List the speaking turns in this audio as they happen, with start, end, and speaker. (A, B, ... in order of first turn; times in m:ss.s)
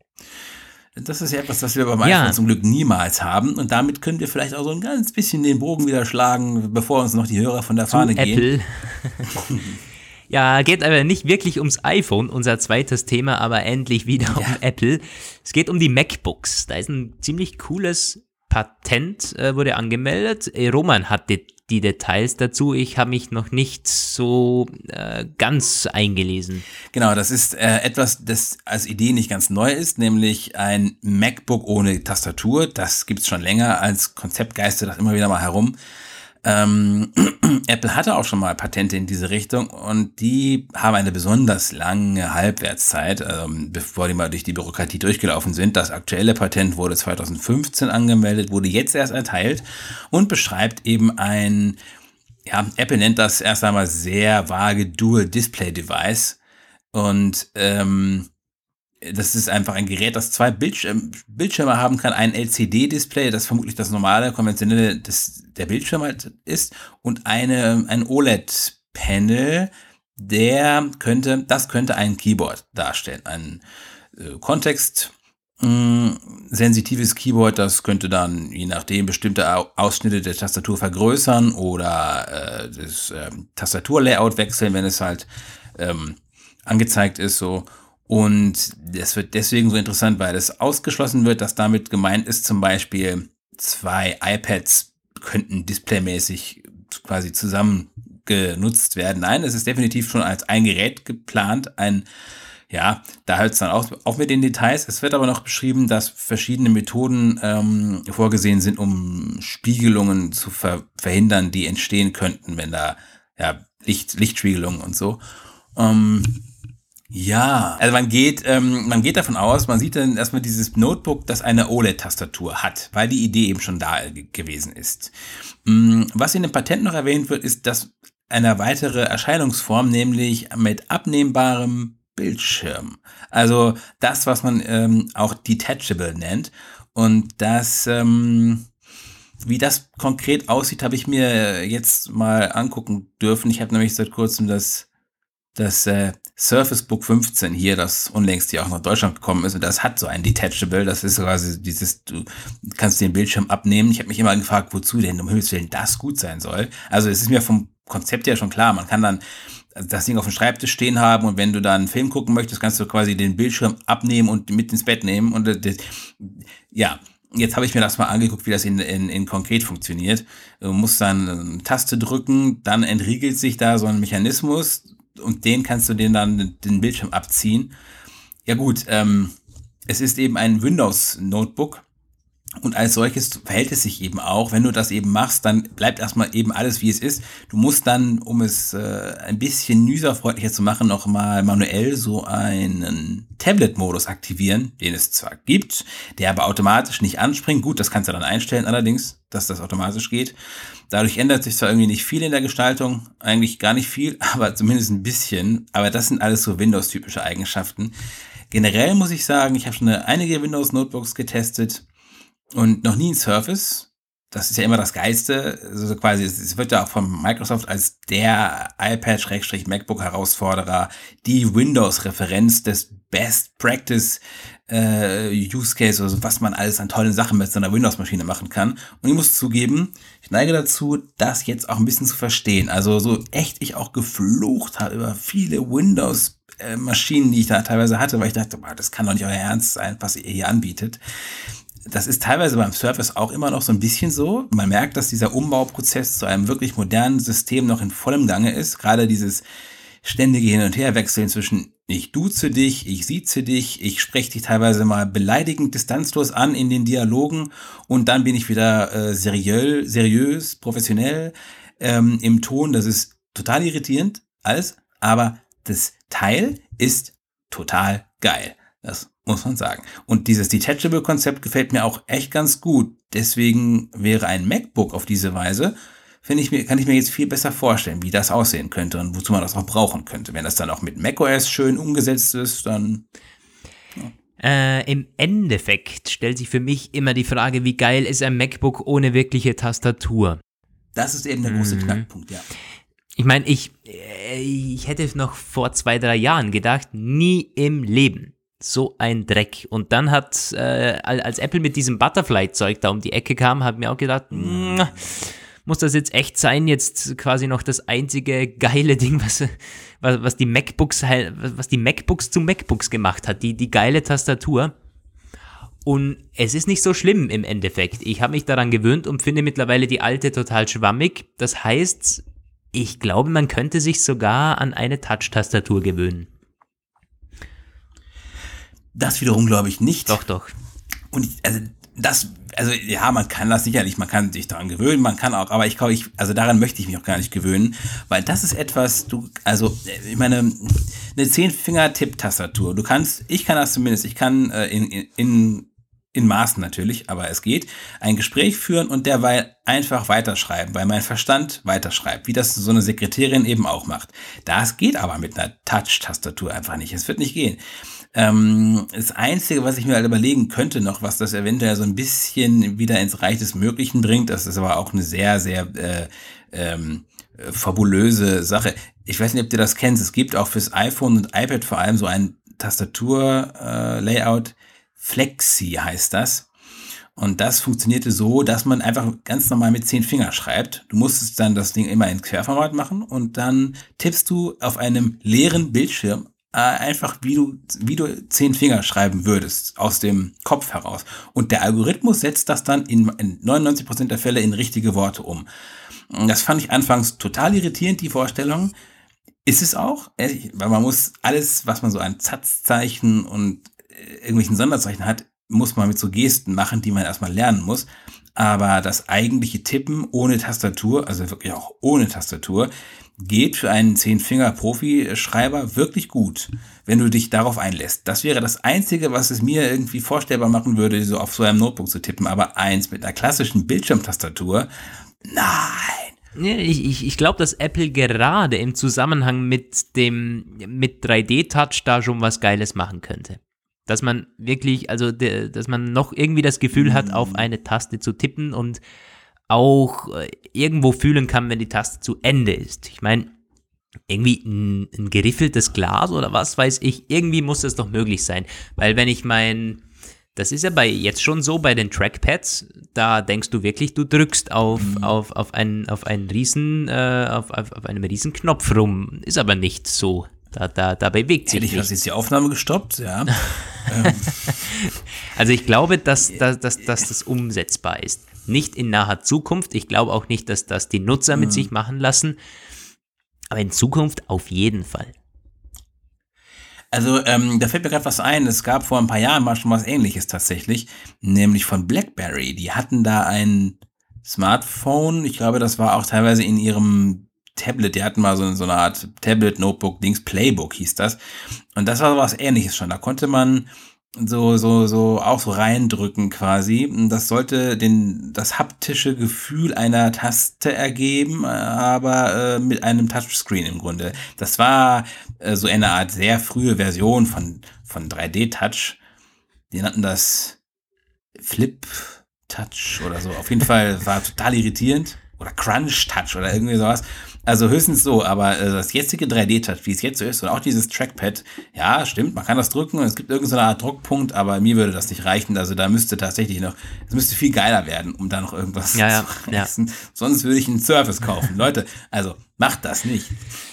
0:01.0-0:08.4 A
0:02.0-0:02.4 B
0:07.9-0:09.4 B
0:09.4-0:09.8 A
0:10.3-0:26.6 B
0:14.3-0:14.6 A
0:26.9-0:35.7 A
0:36.4-0:51.8 A
0:52.5-0:56.4 A
0:56.9-0:58.3 A
0:59.0-1:13.6 A
1:14.1-1:42.0 A
1:42.7-1:55.2 A
1:55.7-1:56.4 A
1:57.1-2:18.7 A
2:19.4-2:24.9 A
2:25.6-2:39.2 A
2:39.7-2:57.7 A
2:58.5-2:59.4 A
2:59.9-3:01.8 A
3:02.6-3:20.4 A
3:20.9-3:27.9 A
3:28.5-3:31.8 A
3:32.5-4:01.0 A
4:01.8-4:09.4 A
4:10.0-4:43.0 A
4:44.4-4:50.4 B
4:50.9-4:52.4 A
4:51.4-4:52.0 B
4:53.2-5:14.7 B
5:04.3-5:05.1 A
5:15.8-5:22.2 B
5:22.7-5:26.3 B
5:28.9-5:30.2 A
5:30.1-5:30.5 B
5:31.1-5:57.6 A
5:58.1-6:16.5 A
6:17.2-6:35.4 A
6:36.1-6:38.7 A
6:39.4-7:04.7 A
7:05.2-7:06.1 A
7:06.3-7:18.8 B
7:16.7-7:17.4 A
7:19.5-7:23.3 B
7:24.1-7:29.8 B
7:30.3-7:41.9 B
7:34.8-7:35.1 A
7:41.4-7:44.6 A
7:43.5-7:52.4 B
7:51.3-7:51.7 A
7:53.5-7:55.1 B
7:56.9-8:11.2 A
8:11.7-8:29.0 A
8:29.7-8:30.6 A
8:31.4-8:53.3 A
8:48.9-8:49.7 B